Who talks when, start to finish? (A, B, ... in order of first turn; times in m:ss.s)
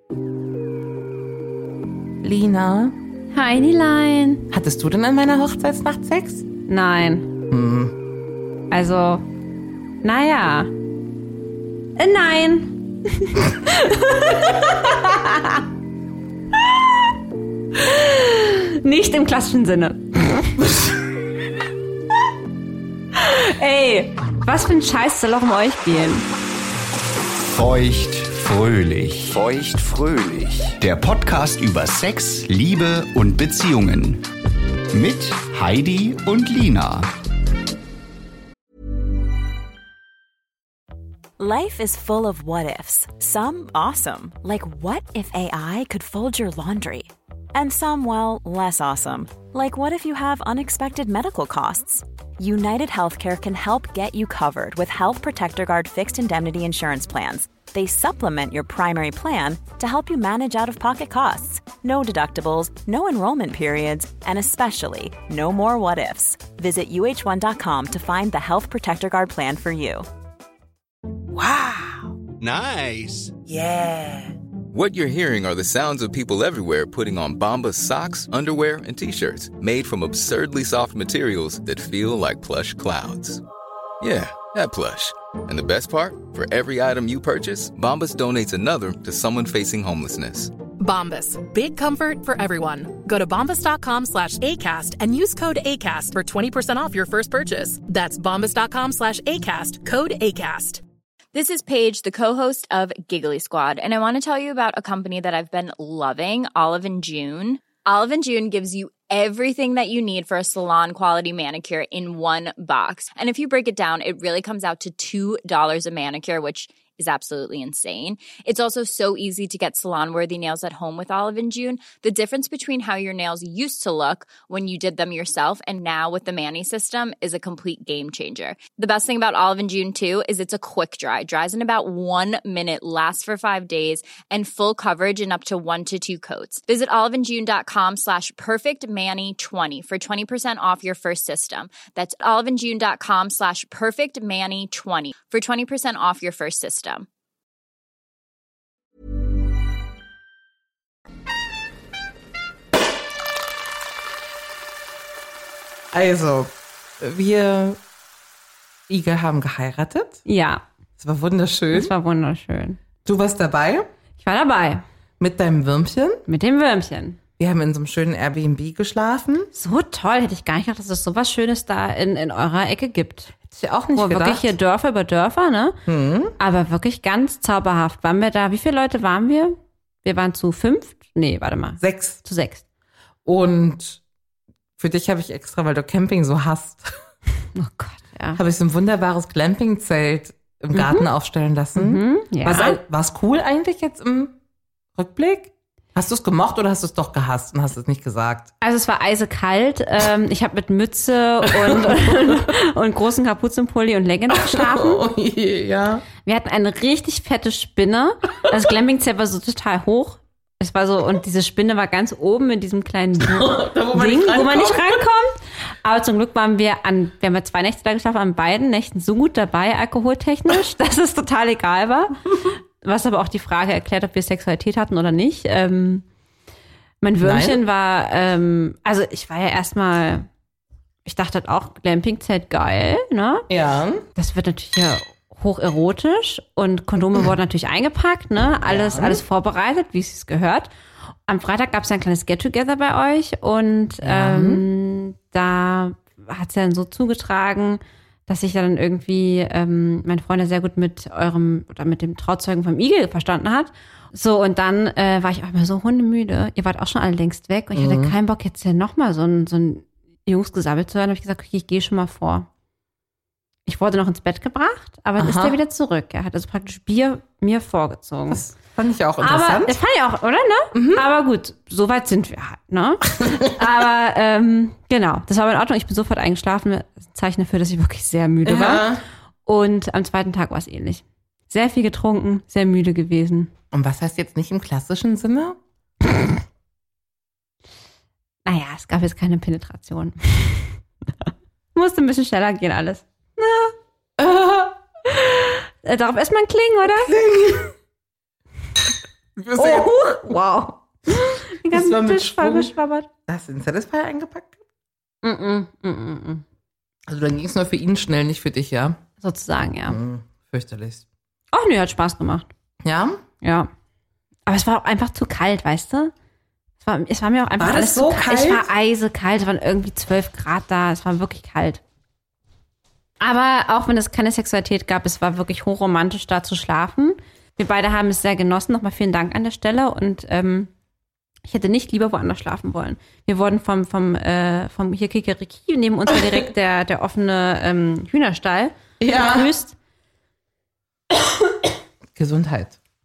0:02.2-0:03.0 A
0:03.3-0:04.4 B
0:04.5-0:06.4 A
0:06.7-0:07.3 B
0:07.5-0:07.9 A
0:08.7-0:09.2 B
0:10.0-0:10.7 B
0:12.0-0:15.6 B
0:17.7-0:20.8 B
0:23.1-0:26.2 B
0:27.5-0:34.2 C
0:34.9-0:37.1 C
0:41.4-1:10.1 D
1:12.9-1:13.3 C
1:14.7-1:23.4 E
1:24.0-1:30.5 E
1:30.8-1:40.8 F
1:41.3-2:27.1 G
2:35.9-2:37.8 A
2:38.9-2:40.2 A
2:40.2-2:40.6 B
2:41.0-2:41.9 A
2:41.7-2:42.8 B
2:43.0-2:43.9 A
2:44.2-2:44.8 B
2:45.2-2:46.2 A
2:46.3-2:47.2 B
2:47.4-2:49.5 A
2:49.5-2:53.4 B
2:53.4-2:54.5 A
2:53.9-2:55.8 B
2:55.8-2:56.4 A
2:56.4-3:02.6 B
3:01.8-3:02.2 A
3:03.2-3:04.0 A
3:04.8-3:06.9 A
3:07.5-3:08.4 B
3:08.4-3:14.3 A
3:10.7-3:11.1 B
3:11.7-3:12.8 B
3:14.9-3:18.5 A
3:18.6-3:25.0 B
3:21.4-3:22.5 A
3:24.3-3:26.0 A
3:26.2-3:42.2 B
3:33.2-3:35.0 A
3:42.8-3:46.0 B
3:47.0-3:50.3 B
3:47.2-3:47.6 A
3:51.0-3:53.5 B
3:53.5-3:54.0 A
3:54.1-4:00.7 B
3:58.6-3:59.2 A
4:01.3-4:22.5 B
4:04.0-4:04.6 A
4:17.7-4:18.1 A
4:23.6-4:28.4 B
4:25.2-4:25.6 A
4:28.3-4:29.8 A
4:29.2-4:38.9 B
4:30.7-4:31.0 A
4:38.4-4:39.0 A
4:39.4-4:43.5 B
4:43.7-4:45.6 A
4:48.4-4:53.7 B
4:54.2-4:54.8 A
4:55.1-4:57.1 B
4:56.8-4:57.7 A
4:59.4-5:00.3 A
4:59.5-5:03.1 B
5:01.7-5:02.7 A
5:03.3-5:04.6 A
5:05.2-5:06.4 B
5:07.1-5:09.0 A
5:09.2-5:10.0 B
5:09.9-5:11.0 A
5:11.5-5:12.5 B
5:12.8-5:13.2 A
5:13.4-5:13.7 B
5:14.4-5:16.1 B
5:16.8-5:21.8 B
5:17.6-5:18.6 A
5:23.2-5:30.7 B
5:31.4-5:39.7 B
5:36.1-5:36.4 A
5:39.0-5:39.5 A
5:42.1-5:42.8 A